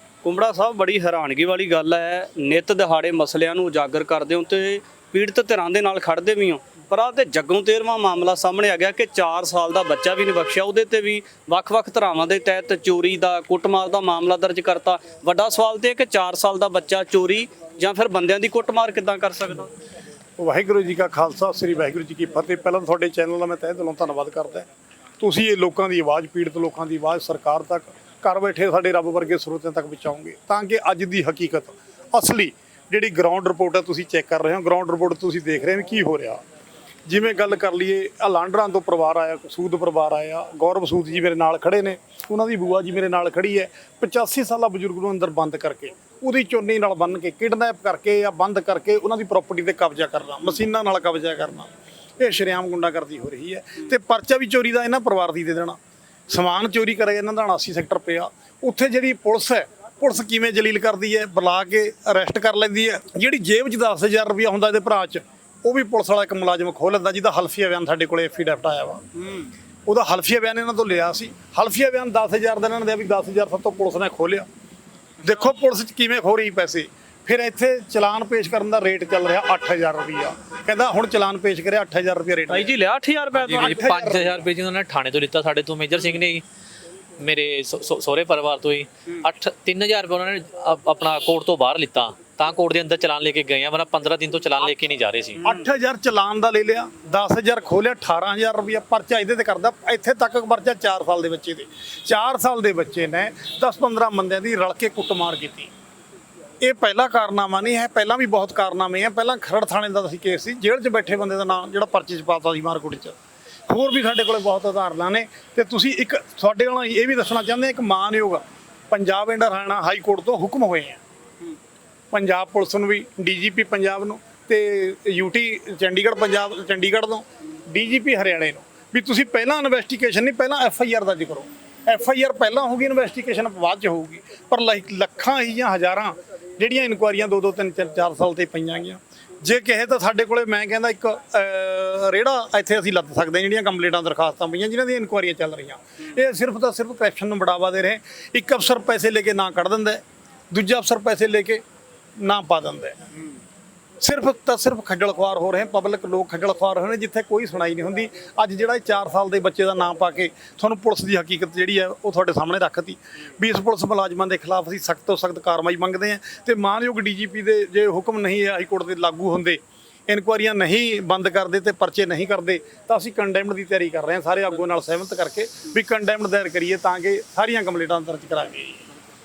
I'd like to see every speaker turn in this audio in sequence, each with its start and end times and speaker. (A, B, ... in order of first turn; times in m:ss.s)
0:00.2-0:19.7 A
0:20.4-0:24.7 B
0:25.2-0:36.4 B
0:37.1-0:55.8 B
0:56.3-1:09.0 B
1:09.8-1:14.5 B
1:15.2-1:22.7 B
1:22.5-1:23.9 A
1:23.4-1:26.4 C
1:23.6-1:24.4 B
1:27.2-1:35.4 C
1:35.4-1:45.7 B
1:46.6-1:53.2 B
1:53.7-2:01.0 B
2:02.1-2:31.6 B
2:32.2-2:33.0 B
2:34.0-2:58.8 B